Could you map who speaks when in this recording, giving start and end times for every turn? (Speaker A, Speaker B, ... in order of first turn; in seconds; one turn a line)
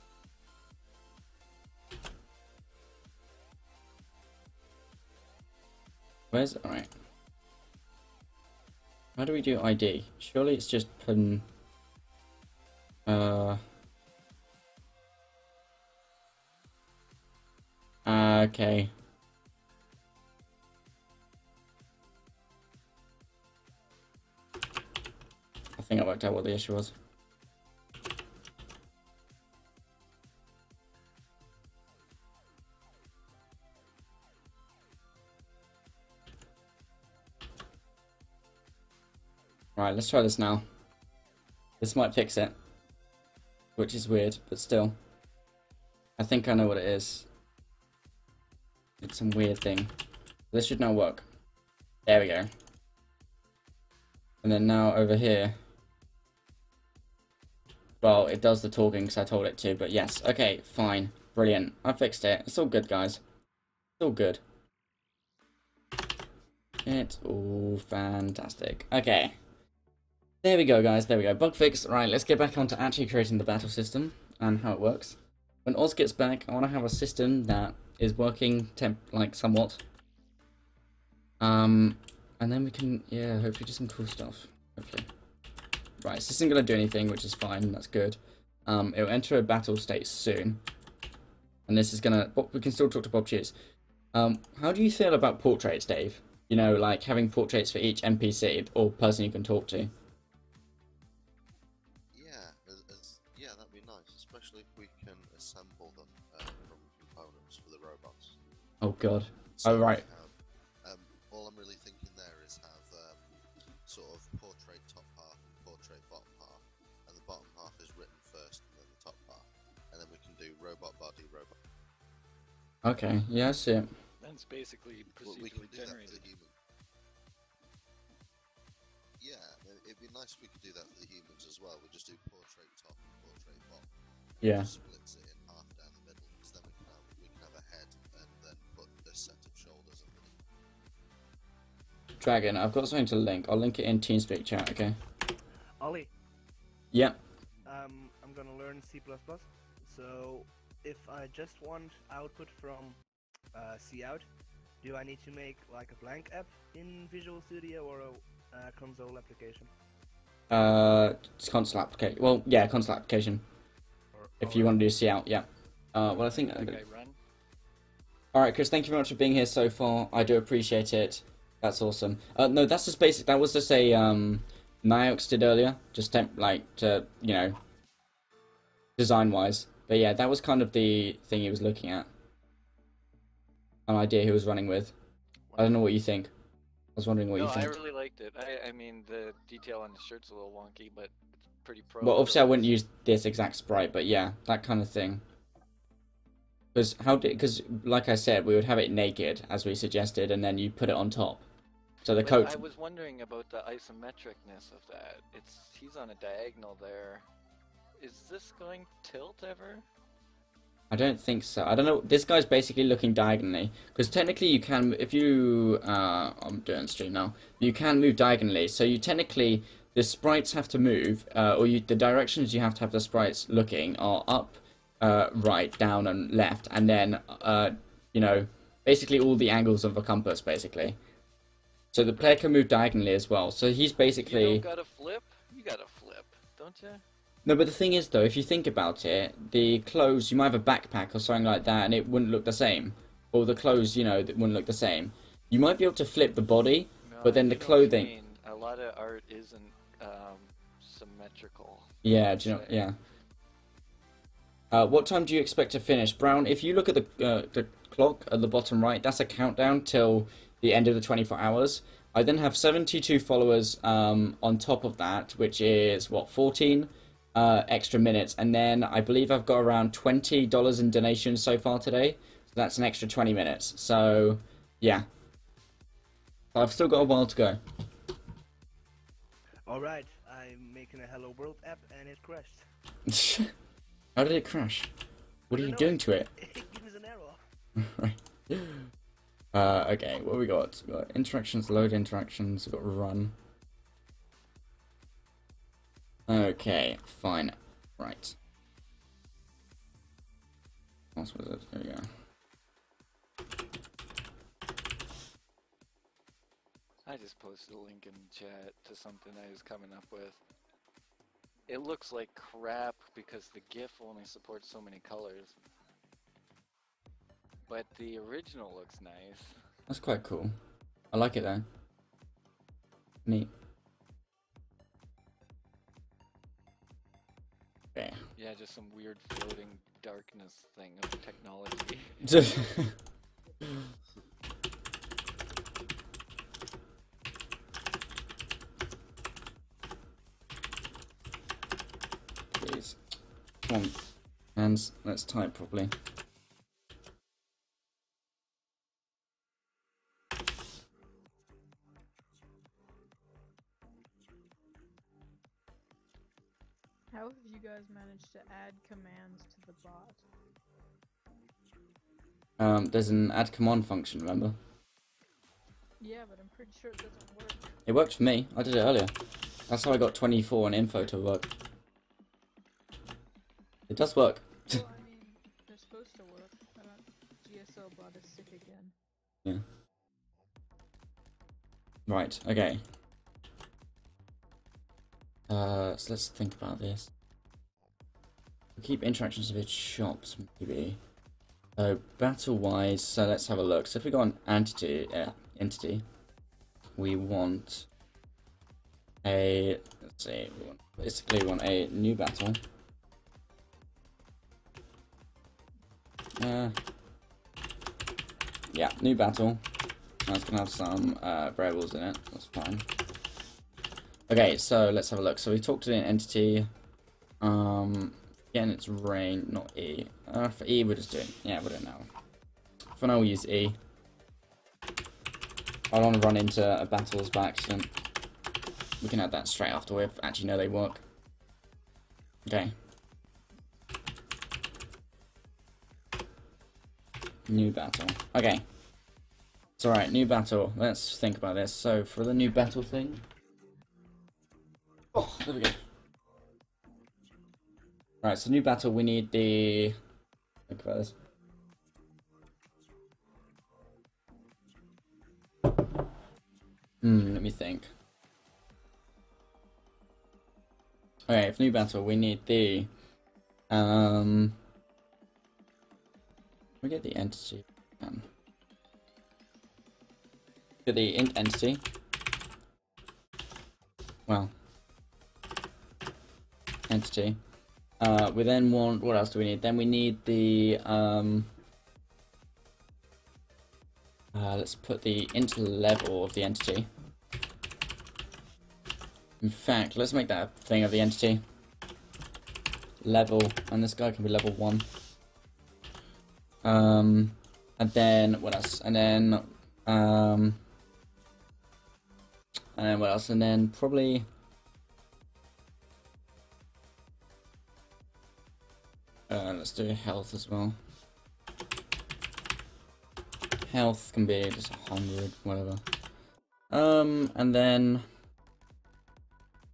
Speaker A: 6.3-6.9
Speaker A: 9.2-11.5
Speaker A: 13.1-13.6
Speaker A: 18.1-18.9
Speaker A: 25.8-26.9
Speaker A: 39.8-40.6
Speaker A: 41.8-42.5
Speaker A: 43.8-45.0
Speaker A: 46.2-47.3
Speaker A: 49.0-49.9
Speaker A: 50.5-51.3
Speaker A: 52.1-52.5
Speaker A: 54.4-55.6
Speaker A: 58.0-63.2
Speaker A: 64.0-64.4
Speaker A: 66.8-69.4
Speaker A: 70.4-79.8
Speaker A: 81.4-85.1
Speaker A: 86.0-90.6
Speaker A: 91.7-93.5
Speaker A: 94.1-99.9
Speaker B: 102.1-108.4
Speaker A: 108.8-110.0
Speaker B: 109.5-113.2
Speaker B: 113.8-121.6
Speaker A: 122.8-123.9
Speaker C: 124.2-126.3
Speaker B: 125.2-126.5
Speaker B: 129.2-133.9
Speaker A: 134.4-134.7
Speaker B: 134.4-140.4
Speaker A: 142.2-145.0
Speaker D: 145.8-146.1
Speaker A: 146.9-147.2
Speaker D: 147.7-153.0
Speaker D: 153.5-154.3
Speaker D: 154.8-159.7
Speaker A: 160.5-163.4
Speaker D: 164.1-164.7
Speaker A: 164.4-166.8
Speaker C: 166.0-167.2
Speaker A: 168.3-177.6
Speaker A: 179.0-182.1
Speaker A: 183.9-184.9
Speaker C: 185.5-185.8
Speaker A: 185.6-186.3
Speaker A: 187.0-187.8
Speaker C: 187.3-192.7
Speaker A: 192.0-195.2
Speaker A: 196.7-201.4
Speaker A: 202.0-202.6
Speaker C: 202.2-207.3
Speaker C: 208.0-209.9
Speaker A: 210.9-231.0
Speaker A: 231.9-234.7
Speaker C: 234.2-237.0
Speaker A: 237.4-248.1
Speaker C: 247.0-252.8
Speaker A: 252.0-253.0
Speaker A: 254.7-275.1
Speaker A: 276.5-277.6
Speaker D: 279.7-282.7
Speaker A: 283.1-283.5
Speaker A: 284.2-284.9
Speaker A: 285.5-286.3
Speaker D: 285.5-287.4
Speaker A: 287.8-288.9
Speaker A: 289.5-293.4
Speaker A: 296.3-298.4
Speaker A: 301.2-302.1
Speaker C: 307.1-310.4
Speaker C: 311.7-315.6
Speaker C: 317.7-319.6
Speaker A: 319.9-320.6
Speaker A: 321.1-321.7
Speaker A: 323.3-323.5
Speaker A: 327.9-328.2
Speaker C: 328.4-332.5
Speaker A: 332.2-332.9
Speaker A: 342.5-343.0
Speaker A: 343.6-344.0
Speaker A: 344.6-345.9
Speaker E: 357.1-360.2
Speaker A: 362.6-364.6
Speaker E: 366.0-367.7
Speaker A: 367.9-369.1
Speaker A: 369.7-371.5
Speaker A: 373.9-374.8
Speaker E: 374.7-378.9
Speaker A: 382.1-382.8
Speaker A: 385.5-387.1
Speaker A: 388.8-391.0
Speaker A: 391.8-396.1
Speaker A: 397.0-397.9
Speaker A: 399.2-402.6
Speaker A: 406.4-406.8
Speaker A: 408.7-409.6
Speaker A: 410.3-412.9
Speaker A: 414.3-416.7
Speaker A: 417.4-422.1
Speaker A: 422.9-423.8
Speaker A: 425.9-427.9
Speaker A: 429.0-431.0
Speaker A: 432.4-432.7
Speaker A: 437.5-438.6
Speaker A: 439.8-443.2
Speaker A: 445.1-445.8
Speaker A: 448.2-450.0
Speaker A: 450.7-451.1
Speaker A: 457.0-457.9
Speaker A: 461.3-462.9
Speaker A: 463.7-464.6
Speaker A: 466.8-468.3
Speaker A: 470.9-471.8
Speaker A: 474.3-474.5
Speaker A: 476.9-477.4
Speaker A: 478.0-481.5
Speaker A: 484.3-486.9
Speaker A: 489.4-491.4
Speaker A: 493.0-494.9
Speaker A: 496.6-500.6
Speaker A: 502.8-504.3
Speaker A: 509.3-510.8
Speaker A: 513.6-515.8
Speaker A: 516.7-518.1